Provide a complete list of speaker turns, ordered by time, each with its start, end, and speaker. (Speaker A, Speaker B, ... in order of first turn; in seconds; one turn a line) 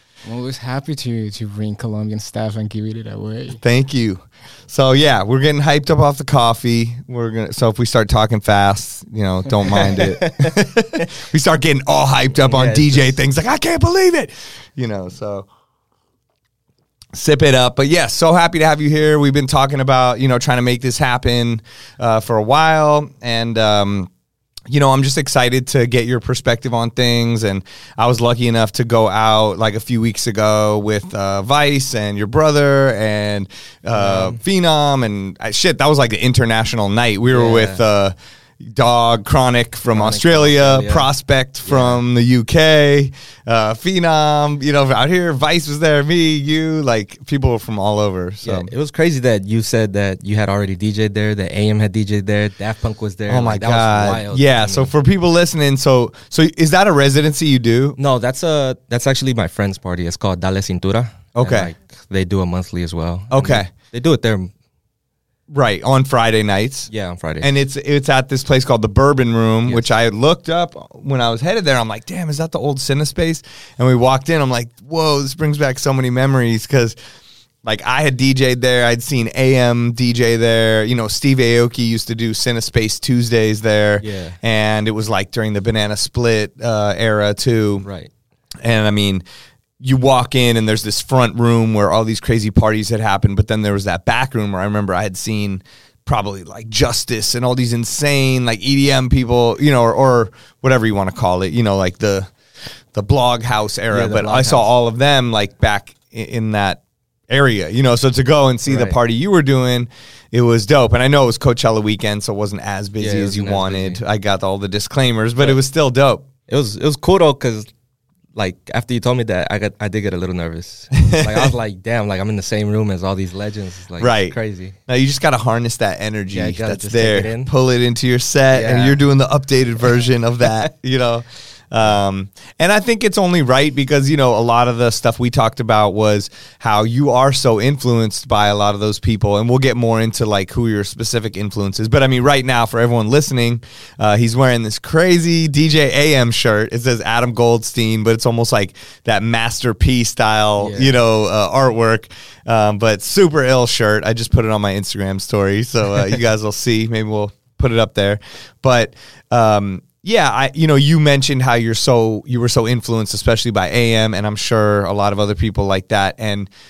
Speaker A: 0.2-3.6
Speaker B: 3.6-15.5
Speaker C: 9.7-11.0
Speaker C: 12.4-13.2
Speaker B: 17.1-24.1
Speaker B: 24.7-48.7
Speaker C: 33.9-34.4
Speaker C: 37.3-37.8
Speaker C: 39.9-41.1
Speaker C: 41.6-42.0
Speaker C: 48.4-54.9
Speaker B: 53.3-58.0
Speaker C: 58.0-64.5
Speaker B: 61.3-61.7
Speaker B: 63.3-63.7
Speaker B: 65.5-66.9
Speaker C: 66.9-67.5
Speaker B: 67.4-76.9
Speaker C: 69.6-69.9
Speaker B: 77.6-87.8
Speaker C: 84.0-84.4
Speaker C: 87.8-88.1
Speaker B: 88.6-89.2
Speaker B: 89.8-102.3
Speaker B: 102.9-116.2
Speaker C: 103.9-104.7
Speaker C: 108.7-109.0
Speaker C: 113.0-114.0
Speaker C: 116.5-117.7
Speaker C: 118.3-124.8
Speaker B: 121.0-121.5
Speaker B: 124.0-124.3
Speaker B: 124.9-166.5
Speaker C: 126.3-127.5
Speaker C: 128.5-129.0
Speaker C: 150.6-150.9